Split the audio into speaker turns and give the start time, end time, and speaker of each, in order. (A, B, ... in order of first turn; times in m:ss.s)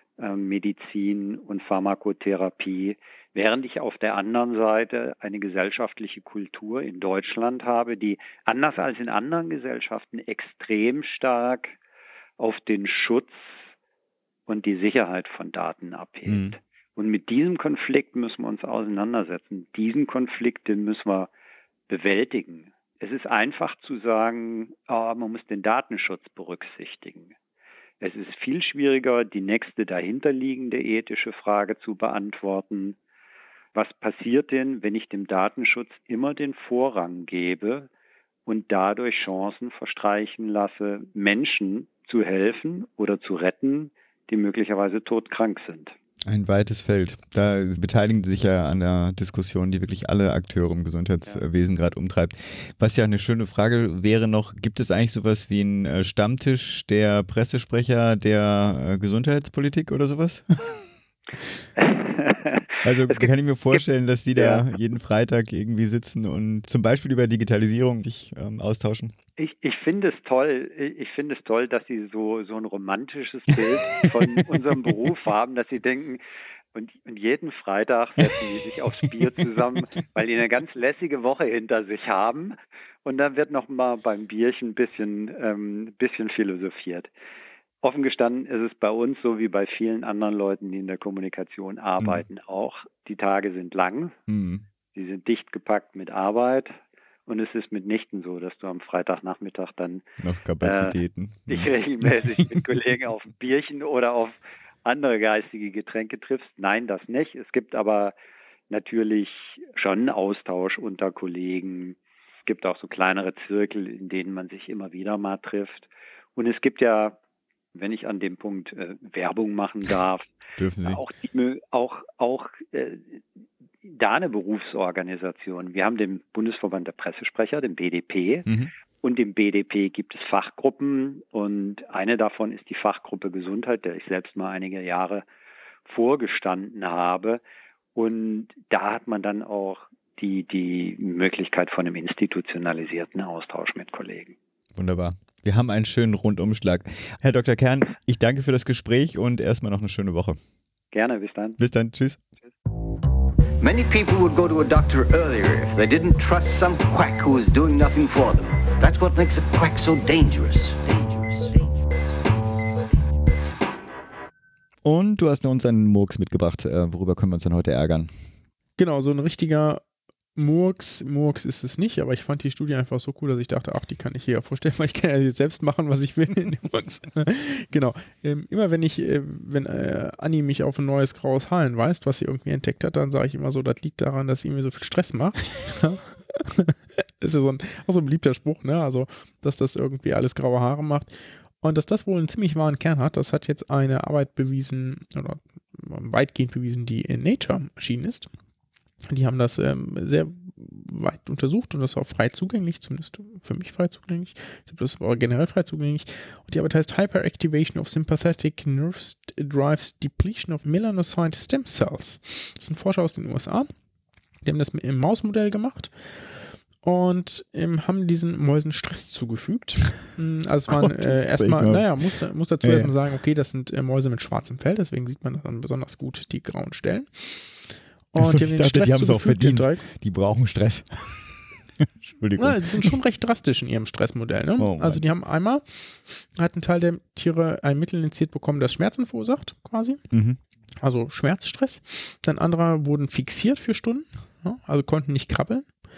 0:00.2-0:11.7 A
0:12.4-0:13.6 A
0:14.5-0:21.3 A
0:16.3-0:16.5 B
0:21.9-0:27.3 A
0:28.0-0:33.0 A
0:33.7-0:37.9 A
0:38.4-0:45.9 A
0:46.3-1:00.8 B
1:01.8-1:03.8 A
1:02.8-1:09.1 B
1:04.4-1:04.6 A
1:09.4-1:16.2 A
1:16.7-1:27.1 A
1:27.8-1:34.2 A
1:34.3-1:34.6 B
1:34.9-1:40.0 A
1:40.2-1:41.7 B
1:40.6-1:41.0 A
1:41.5-1:48.1 A
1:48.7-1:57.2 A
1:57.7-2:00.2 A
2:00.6-2:01.0 B
2:00.8-2:03.2 A
2:03.8-2:08.5 A
2:09.0-2:15.2 A
2:15.8-2:17.4 A
2:17.9-2:24.3 A
2:24.7-2:30.4 B
2:30.9-2:31.6 A
2:31.6-2:32.2 B
2:33.6-2:41.7 C
2:44.8-2:48.1 B
2:48.8-2:49.8 D
2:50.3-3:18.3 D
3:19.1-3:33.7 D
3:34.4-3:49.8 D
3:40.7-3:41.8 B
3:42.6-3:42.9 B
3:48.2-3:52.9 B
3:52.4-4:00.0 D
3:54.6-3:55.0 B
4:00.1-4:00.4 B
4:00.8-4:05.7 D